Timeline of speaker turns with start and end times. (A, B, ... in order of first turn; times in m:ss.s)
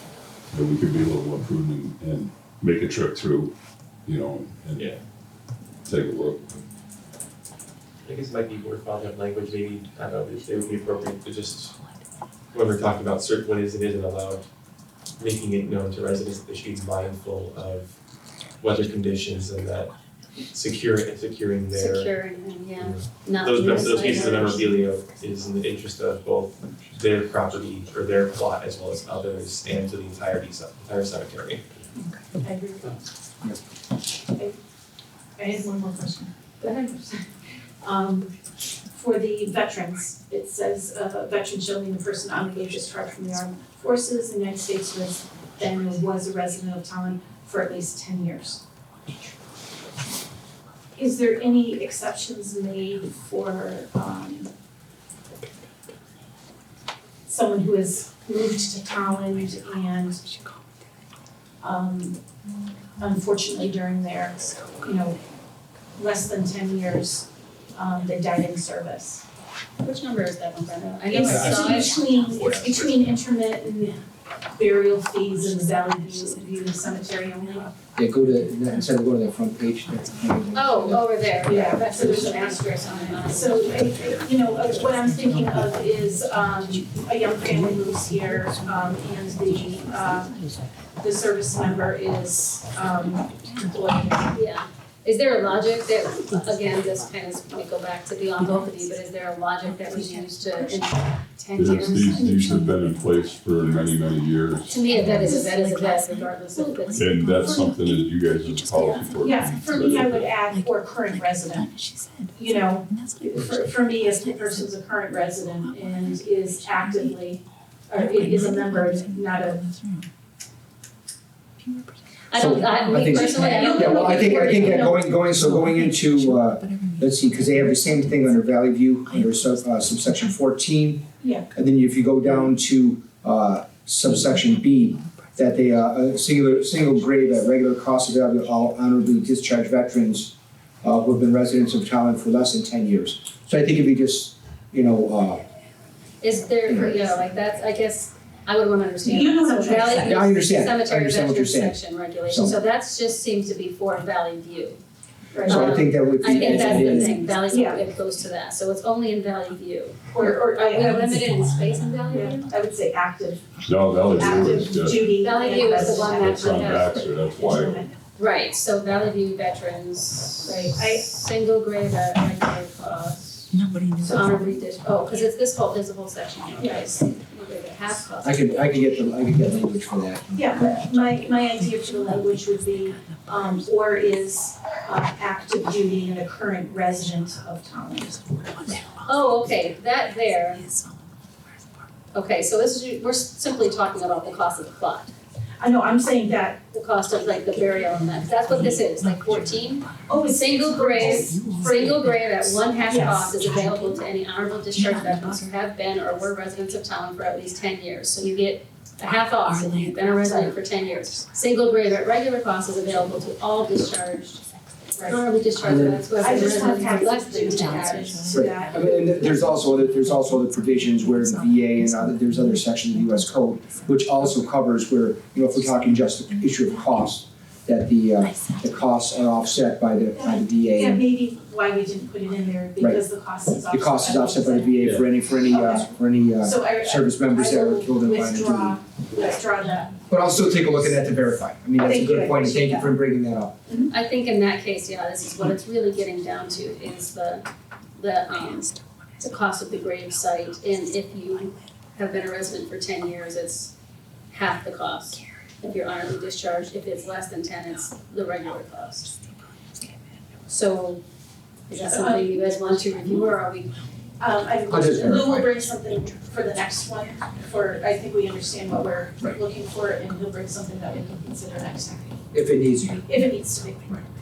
0:00.5-0:04.9 A
0:04.8-0:05.0 B
0:05.8-0:06.5 A
0:08.0-0:11.7 B
0:12.5-0:14.5 B
0:15.2-0:18.0 B
0:18.6-0:19.9 B
0:20.4-0:22.1 B
0:21.7-0:24.9 C
0:22.8-0:31.6 B
0:32.0-0:33.0 D
0:35.4-0:37.2 D
0:37.8-0:38.3 D
0:38.9-0:48.6 D
0:51.0-0:54.5 D
0:57.3-1:00.2 D
1:01.6-1:02.2 D
1:03.0-1:05.2 D
1:06.0-1:09.2 D
1:09.8-1:12.0 C
1:11.1-1:14.0 D
1:11.2-1:13.0 B
1:12.1-1:12.5 E
1:14.6-1:17.8 D
1:15.3-1:17.6 E
1:18.0-1:20.9 F
1:18.2-1:18.9 E
1:19.7-1:22.1 E
1:20.5-1:24.2 C
1:21.4-1:30.4 D
1:22.7-1:30.6 E
1:31.0-1:34.4 D
1:33.4-1:33.7 E
1:34.3-1:41.4 C
1:38.4-1:39.0 E
1:39.6-1:40.9 E
1:41.4-1:42.8 D
1:41.5-1:45.4 A
1:43.6-1:43.9 E
1:44.7-1:47.1 C
1:44.8-1:54.7 E
1:44.8-1:45.8 D
1:46.4-1:47.7 D
1:46.9-1:50.3 A
1:48.8-1:51.7 D
1:52.4-1:59.6 D
1:55.6-1:57.2 E
1:58.0-2:00.1 E
2:02.3-2:04.4 C
2:02.4-2:25.4 F
2:02.7-2:03.7 E
2:03.1-2:05.1 D
2:04.4-2:08.5 E
2:09.1-2:10.3 E
2:11.2-2:11.5 D
2:14.1-2:15.8 E
2:16.8-2:17.4 E
2:26.2-2:34.8 C
2:26.7-2:27.0 F
2:29.0-2:30.2 D
2:30.0-2:32.6 F
2:35.3-2:35.7 D
2:35.4-2:42.5 C
2:35.5-2:37.3 F
2:36.5-2:37.8 D
2:40.1-2:41.4 D
2:40.8-2:42.3 E
2:42.1-2:43.5 D
2:43.6-2:45.1 A
2:44.0-2:47.9 D
2:45.1-2:47.0 C
2:46.0-2:47.8 A
2:48.2-2:53.5 C
2:50.4-2:51.1 D
2:53.5-2:54.6 E
2:54.0-2:54.4 D
2:54.0-2:58.7 C
2:56.6-2:57.0 D
2:58.2-3:00.2 F
3:00.3-3:03.4 E
3:00.3-3:08.2 D
3:08.1-3:10.9 E
3:09.0-3:10.6 C
3:12.1-3:15.1 C
3:15.6-3:18.6 D
3:16.7-3:34.4 C
3:17.9-3:24.0 E
3:20.1-3:21.9 D
3:22.4-3:23.4 D
3:24.7-3:25.6 E
3:29.4-3:31.2 E
3:35.0-3:35.2 D
3:35.0-3:38.3 C
3:35.6-3:36.2 F
3:36.2-3:39.6 D
3:36.2-3:44.4 E
3:38.3-3:51.0 F
3:45.6-3:47.1 E
3:48.2-3:49.1 E
3:50.1-3:54.8 D
3:52.8-3:53.0 F
3:53.7-3:58.8 F
3:54.8-3:55.1 A
3:55.4-4:00.0 D
4:00.1-4:03.5 F
4:01.8-4:03.0 D
4:03.7-4:03.9 D
4:03.9-4:13.7 C
4:14.3-4:19.2 C
4:20.5-4:21.0 C
4:21.7-4:23.7 C
4:21.8-4:22.4 D
4:24.2-4:32.2 D
4:24.7-4:25.5 F
4:24.8-4:25.4 C
4:32.3-4:33.0 F
4:33.0-4:34.0 D